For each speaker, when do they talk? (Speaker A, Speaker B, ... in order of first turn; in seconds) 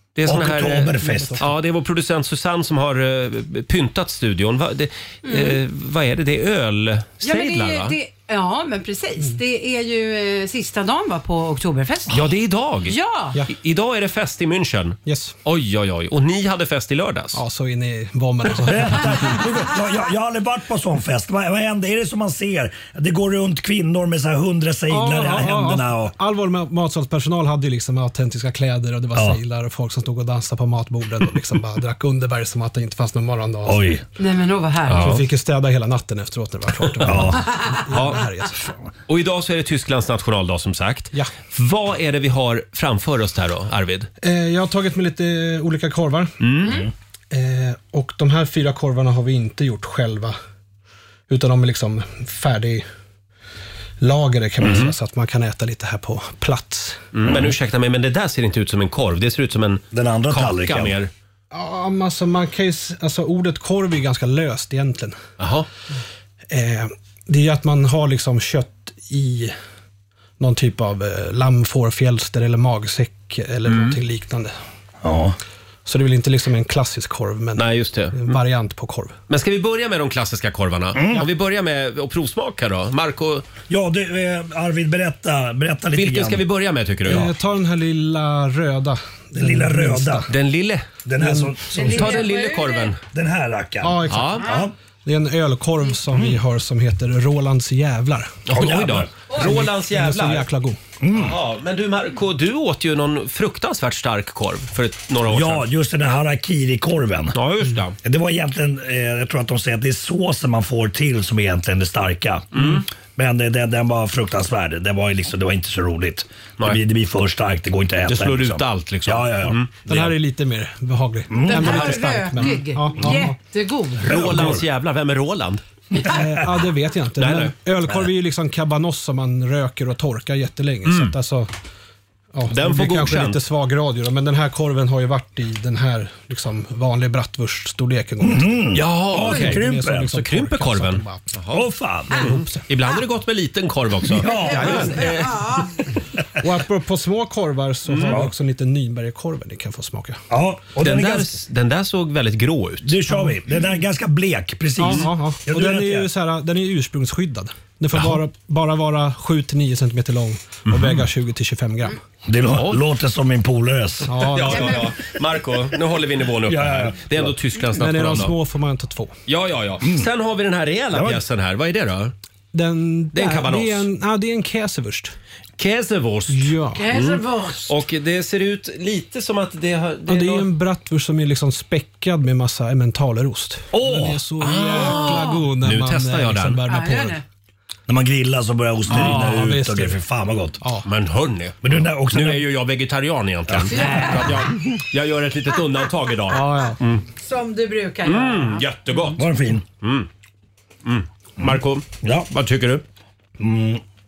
Speaker A: 0.2-8.0, 12.1-13.0, 13.5-17.4, 34.9-35.3, 37.9-38.2, 39.1-44.1, 46.4-46.8, 57.1-61.1, 65.4-65.7, 73.7-74.0, 77.6-78.4, 79.3-83.5, 85.9-87.3, 90.3-90.9, 91.9-93.0, 94.1-94.5, 98.5-100.5, 101.1-105.6, 107.3-108.0, 112.5-112.8, 118.1-120.1, 124.1-125.6, 127.2-127.5, 130.8-131.2, 132.5-133.4, 138.8-141.6, 142.1-145.6, 147.9-148.2, 150.8-152.9, 157.9-158.2, 160.7-161.0, 162.5-162.8, 164.2-168.3, 169.3-172.1, 173.1-173.9, 175.6-180.5, 184.4-186.6, 188.9-189.2, 190.8-197.0, 198.1-199.3, 199.8-200.1, 200.8-202.8
Speaker B: 0.3-1.4, 18.6-26.1, 33.7-34.0, 37.0-37.5, 57.2-57.5, 59.9-61.0, 75.0-75.4, 81.0-81.3, 83.7-86.4, 89.3-90.3, 91.0-92.2, 93.1-94.7, 96.1-96.4, 98.5-99.1, 101.0-101.4, 105.3-107.4, 108.0-119.6, 121.3-122.0, 124.0-124.6, 126.0-126.5, 138.2-140.1, 141.5-142.3, 144.1-145.1, 148.1-148.3, 150.3-151.4, 152.8-156.1, 162.3-164.5, 166.5-167.3, 169.8-170.1, 170.9-171.2, 183.7-184.2, 187.9-190.6, 191.6-192.4, 193.5-194.4, 199.2-199.7, 201.4-202.3, 203.4-203.8
Speaker C: 1.0-1.5, 15.1-15.3, 17.3-19.4, 24.9-33.9, 34.9-38.7, 44.2-46.4, 47.3-50.4, 51.3-52.8, 54.0-57.1, 61.5-65.2, 66.5-69.5, 70.4-74.5, 75.9-79.2, 87.1-90.3, 91.2-91.6, 93.8-94.4, 95.0-98.4, 99.3-100.8, 119.9-123.4, 126.0-131.5, 132.3-141.4, 142.1-142.7, 146.4-150.2, 153.1-153.4, 154.8-162.0, 164.1-164.9, 167.7-169.2, 172.5-175.2, 176.3-176.9, 180.1-187.2, 188.9-190.0, 190.6-190.9, 196.3-196.8
Speaker D: 5.2-5.6, 7.2-12.2, 12.9-13.4, 34.2-35.1, 91.7-92.9, 121.5-124.2, 144.3-145.7, 176.7-177.7, 184.8-185.5, 186.7-187.2, 193.7-194.4, 197.2-198.6